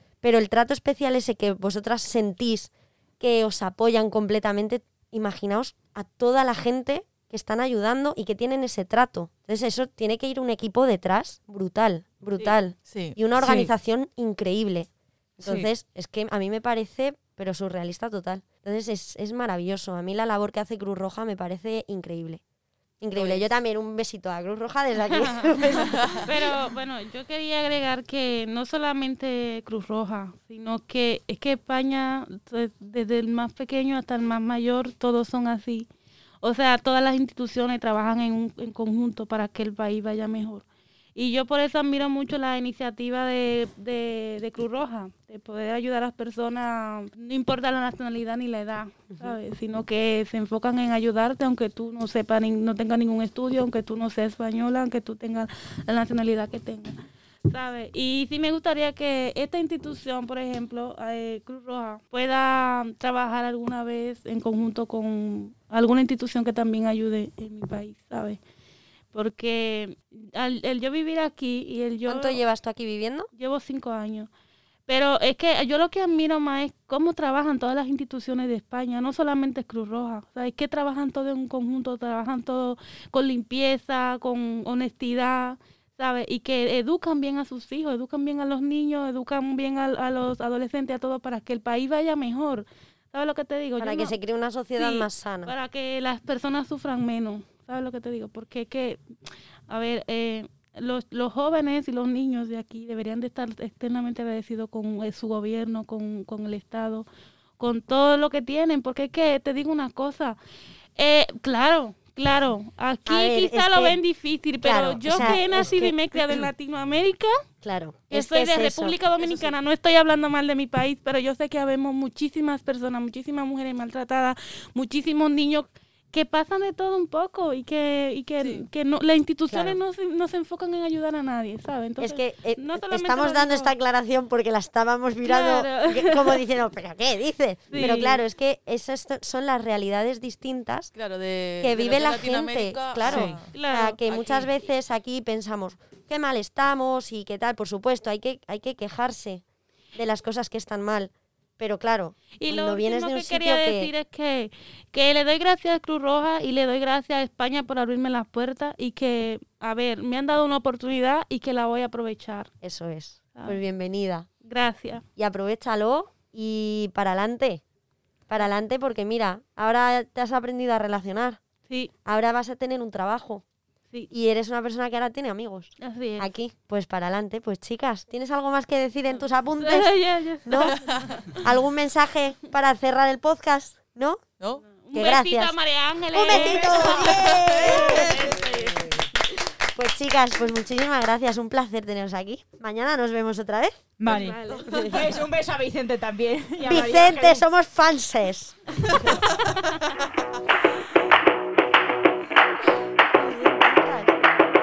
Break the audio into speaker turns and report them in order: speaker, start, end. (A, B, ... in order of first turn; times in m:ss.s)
0:00.2-0:14.9 A
0:12.4-0:13.2 B
0:13.4-0:13.7 C
0:15.4-0:15.7 C
0:15.4-0:22.4 A
0:23.0-0:26.2 A
0:23.1-0:23.6 B
0:25.8-0:26.3 B
0:26.2-0:35.9 D
0:36.4-0:57.0 D
0:49.1-0:49.4 A
0:57.5-1:08.4 D
1:09.1-1:12.4 D
1:12.1-1:13.3 A
1:13.4-1:14.3 D
1:14.9-1:34.2 D
1:33.8-1:35.5 A
1:34.8-1:39.0 D
1:39.7-1:47.1 D
1:47.6-1:50.4 D
1:51.0-1:57.3 D
1:53.1-1:54.0 A
1:54.6-1:56.5 A
1:57.6-1:59.0 A
1:58.1-2:13.7 D
1:59.2-1:59.6 B
2:08.4-2:08.7 B
2:09.5-2:09.8 A
2:12.0-2:20.9 A
2:15.2-2:16.4 D
2:17.7-2:18.2 D
2:20.9-2:23.5 B
2:21.6-2:29.4 A
2:23.0-2:23.4 C
2:23.5-2:24.0 D
2:24.1-2:24.5 B
2:30.0-2:33.9 A
2:32.4-2:42.5 D
2:42.6-2:44.3 A
2:44.4-2:45.0 D
2:45.2-2:47.6 A
2:48.3-2:51.4 A
2:51.7-2:51.9 D
2:52.0-2:53.4 A
2:54.1-2:59.9 A
2:55.8-2:56.3 D
2:59.2-3:01.1 D
3:00.5-3:00.8 A
3:01.4-3:04.2 A
3:04.4-3:04.6 B
3:04.6-3:09.1 D
3:04.9-3:05.6 A
3:06.1-3:08.4 A
3:06.3-3:08.0 C
3:07.4-3:08.4 B
3:09.7-3:13.8 A
3:14.0-3:17.4 C
3:14.1-3:15.0 D
3:14.7-3:15.1 A
3:16.6-3:18.9 A
3:23.2-3:24.2 A